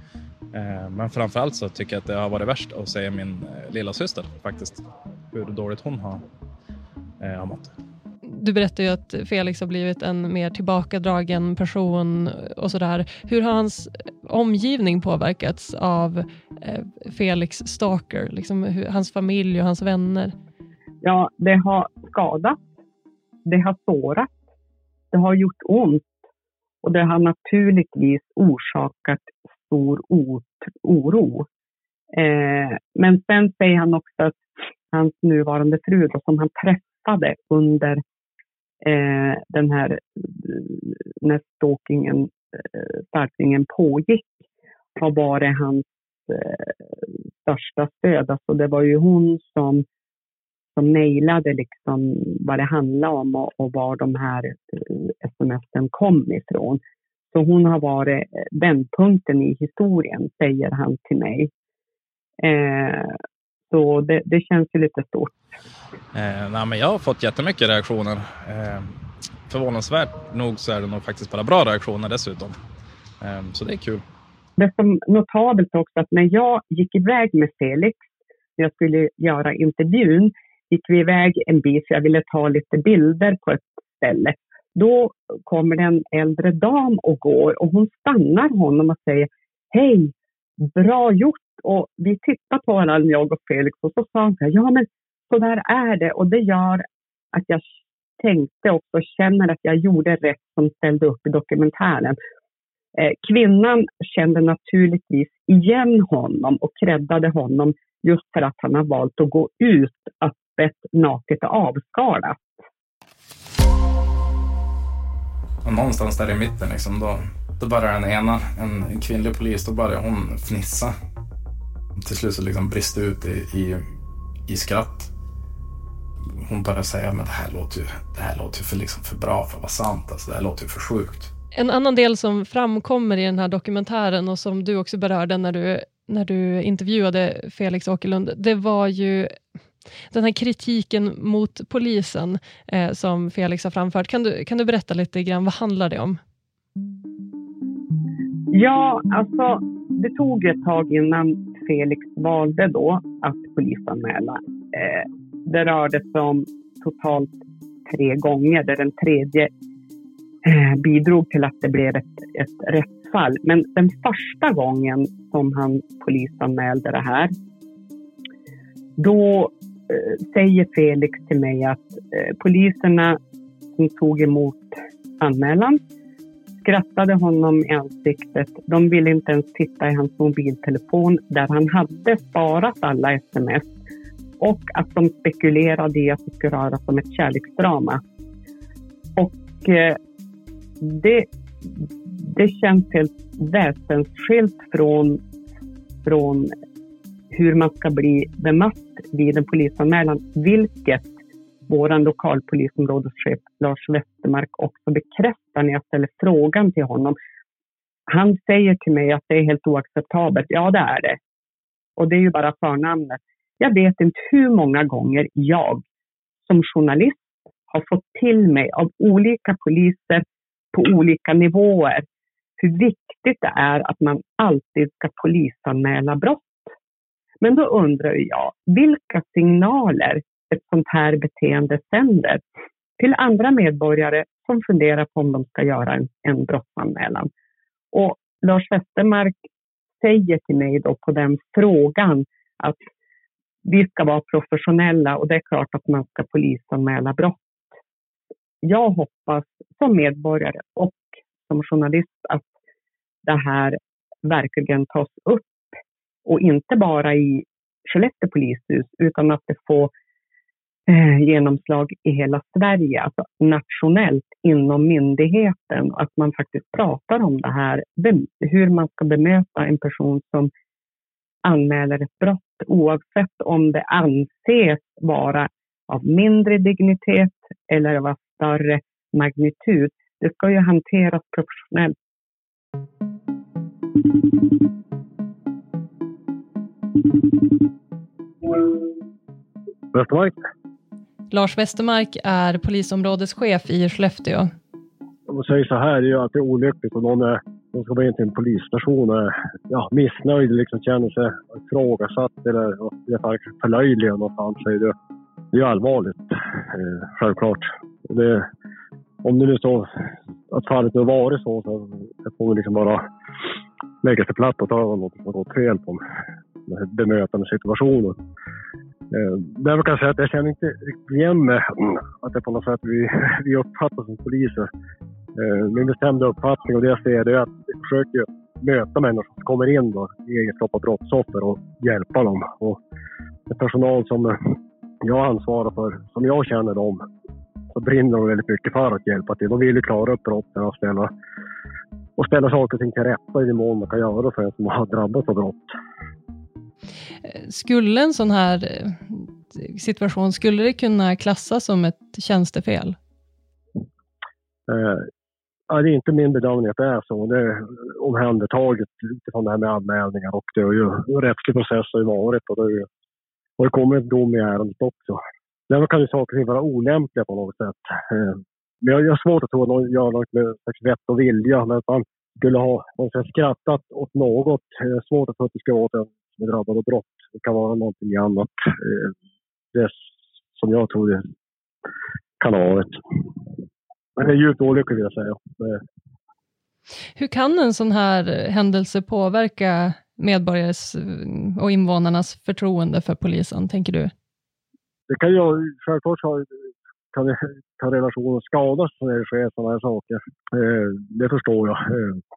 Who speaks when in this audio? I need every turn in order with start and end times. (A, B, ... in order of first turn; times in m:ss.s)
0:00.5-0:06.2 A
0:07.2-0:07.7 A
0:08.3-0:20.4 B
0:21.0-0:22.6 C
0:23.5-0:24.3 C
0:25.1-0:26.1 C
0:26.8-0:31.5 C
0:32.1-0:34.4 C
0:34.9-0:38.0 C
0:38.8-0:44.3 C
0:45.0-0:46.7 C
0:47.4-0:49.8 C
0:50.8-0:56.8 C
0:57.3-1:01.5 C
1:02.4-1:03.1 C
1:03.7-1:05.4 C
1:06.1-1:08.9 A
1:09.5-1:12.6 A
1:13.2-1:14.0 A
1:14.6-1:18.0 C
1:18.6-1:30.1 C
1:30.6-1:42.2 C
1:43.0-1:52.4 C
1:55.6-2:00.9 D
2:02.0-2:03.8 D
2:04.5-2:05.1 D
2:06.4-2:11.3 D
2:11.5-2:19.4 B
2:20.1-2:26.2 B
2:28.5-2:37.3 C
2:37.9-2:39.5 C
2:40.4-2:47.3 C
2:49.0-2:53.2 C
2:53.8-2:55.8 C
2:56.6-3:03.7 C
3:04.4-3:08.0 C
3:09.2-3:10.0 C
3:10.8-3:11.3 C
3:12.1-3:15.2 C
3:16.0-3:16.5 C
3:17.3-3:21.1 C
3:21.7-3:27.2 C
3:28.1-3:31.2 C
3:32.0-3:35.8 C
3:36.5-3:42.0 C
3:42.6-3:46.7 C
3:47.4-3:52.4 C
3:53.0-3:57.3 C
3:57.9-3:59.4 C
4:00.0-4:02.8 C
4:03.6-4:07.4 C
4:08.6-4:12.5 C
4:13.2-4:15.7 C
4:16.3-4:19.9 C
4:20.9-4:30.5 C
4:31.4-4:42.0 C
4:49.9-4:50.4 E
4:51.3-4:54.5 B
4:55.3-5:05.0 E
5:05.5-5:08.5 E
5:09.2-5:10.0 E
5:10.5-5:13.0 E
5:14.0-5:16.0 E
5:16.7-5:18.2 E
5:19.1-5:24.7 E
5:25.4-5:32.8 E
5:33.5-5:34.4 E
5:35.0-5:37.0 E
5:37.7-5:41.1 E
5:42.2-5:45.7 E
5:47.3-5:53.0 B
5:54.7-5:55.1 E
5:55.7-6:02.9 E
6:03.6-6:19.1 E
6:20.5-6:21.2 E
6:22.4-6:23.0 E
6:24.2-6:25.8 E
6:27.2-6:34.1 B
6:35.1-6:36.5 E
6:37.1-6:42.2 E